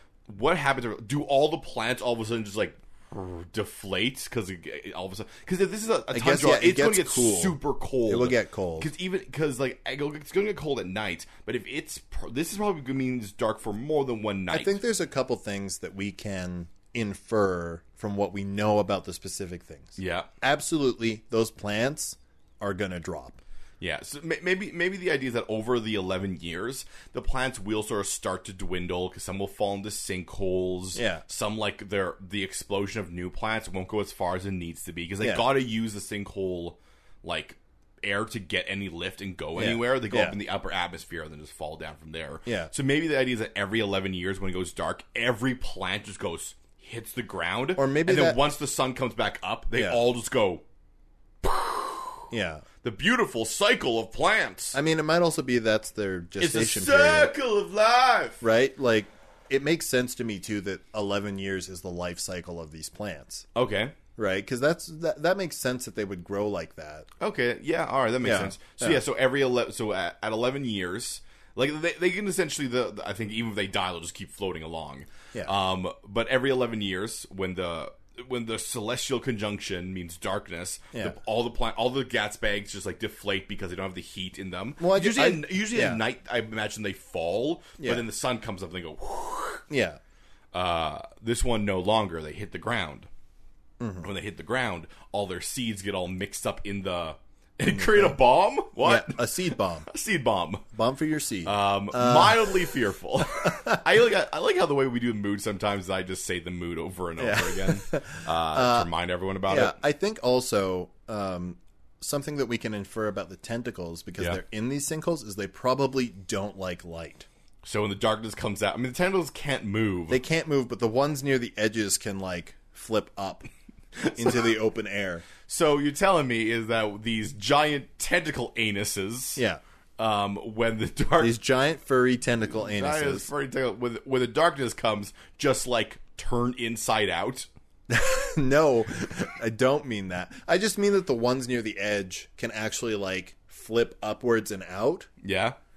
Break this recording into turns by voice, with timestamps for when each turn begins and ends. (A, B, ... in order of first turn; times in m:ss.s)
0:00.3-0:14.8 A
0:06.1-0:08.9 B
0:14.5-0:23.4 B
0:20.0-0:20.3 A
0:23.8-0:50.6 A
0:30.9-0:31.2 B
0:39.6-0:40.4 B
0:42.4-0:42.7 B
0:47.8-0:48.4 B
0:49.7-0:50.0 B
0:51.4-0:52.2 A
0:52.3-0:52.6 B
0:52.8-0:54.8 A
0:54.7-0:57.3 B
0:56.4-0:58.4 A
0:58.4-1:03.4 B
1:03.5-1:04.0 A
1:04.2-1:07.1 B
1:07.2-1:29.6 A
1:08.2-1:09.0 B
1:24.8-1:26.0 B
1:29.7-1:30.0 B
1:30.5-1:33.1 A
1:33.8-1:34.1 B
1:34.0-1:40.6 A
1:37.7-1:38.2 B
1:38.8-1:39.9 B
1:40.7-1:42.7 B
1:41.4-1:49.8 A
1:43.4-1:43.8 B
1:47.2-1:48.9 B
1:49.5-1:57.3 B
1:57.6-2:00.2 A
2:00.1-2:03.5 B
2:04.0-2:04.5 A
2:04.1-2:05.2 B
2:05.4-2:09.4 A
2:10.0-2:11.4 A
2:11.2-2:13.3 B
2:12.6-2:17.5 A
2:17.9-2:25.1 B
2:25.2-2:25.6 A